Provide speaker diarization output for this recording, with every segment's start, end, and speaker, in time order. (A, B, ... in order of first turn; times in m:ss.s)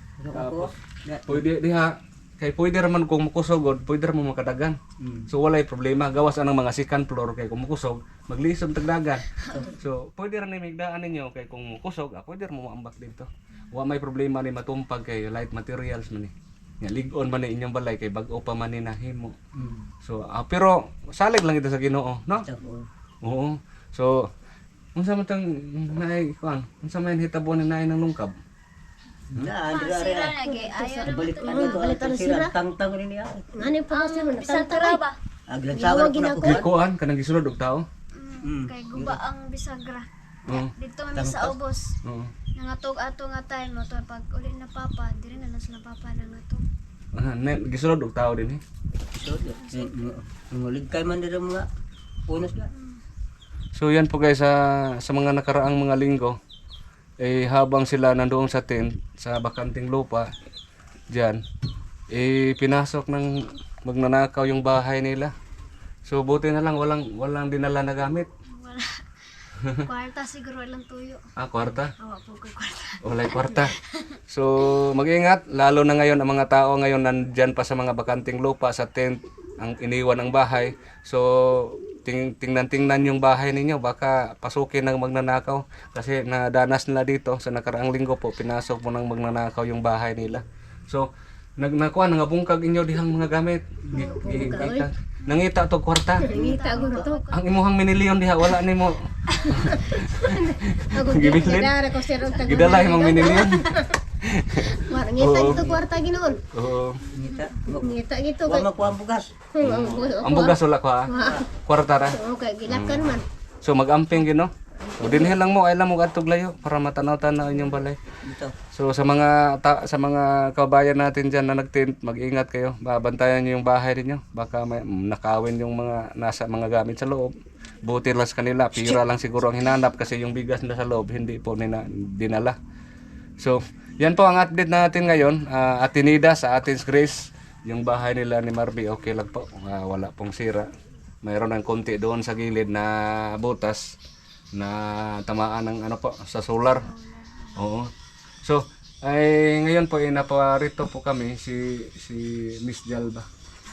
0:00.2-0:01.4 A
0:00.3-0:00.7 B
0:01.3-0:04.8 B
0:05.0-0:05.3 A
0:05.3-0:19.4 B
0:09.4-0:09.7 C
0:19.6-0:19.8 A
0:20.0-0:22.5 B
0:22.4-0:22.9 A
0:23.2-0:24.3 B
0:24.9-0:28.4 B
0:29.3-0:30.4 A
0:29.6-0:31.8 C
0:30.4-0:32.5 D
0:31.0-0:33.5 A
0:33.5-0:35.0 D
0:33.9-0:35.2 C
0:35.5-0:36.7 A
0:35.7-0:36.6 D
0:36.4-0:37.8 B
0:38.1-0:41.9 C
0:38.4-0:39.2 A
0:40.5-0:40.7 B
0:41.1-0:41.6 A
0:42.0-0:42.3 B
0:42.6-0:46.6 C
0:47.1-0:48.6 B
0:49.2-0:51.7 A
0:49.5-0:50.1 C
0:52.3-0:52.7 A
0:52.7-0:53.0 C
0:53.7-0:56.4 B
0:57.2-1:00.3 B
1:01.1-1:01.4 B
1:02.1-1:05.3 B
1:06.0-1:08.3 B
1:08.5-1:09.0 C
1:09.6-1:09.8 B
1:09.8-1:11.2 C
1:11.4-1:11.9 B
1:12.0-1:14.1 C
1:13.0-1:13.8 B
1:14.3-1:36.3 B
1:33.9-1:34.6 A
1:33.9-1:34.9 D
1:36.2-1:37.5 C
1:36.2-1:37.2 D
1:36.8-1:37.0 A
1:37.3-1:41.8 B
1:39.3-1:39.7 C
1:40.0-1:44.0 D
1:42.3-1:45.7 B
1:44.8-1:46.4 D
1:45.5-1:45.8 A
1:46.5-1:47.0 B
1:47.2-1:49.3 A
1:47.2-1:47.5 C
1:47.7-1:48.7 D
1:49.5-1:51.4 D
1:49.6-1:58.0 B
1:51.1-1:51.5 A
1:52.1-1:53.2 D
1:54.8-1:55.3 D
1:58.2-1:58.6 A
1:58.7-2:12.6 B
2:13.4-2:20.7 B
2:21.2-2:24.0 B
2:24.5-2:26.9 B
2:26.7-2:27.6 C
2:27.6-2:27.9 B
2:28.4-2:33.2 B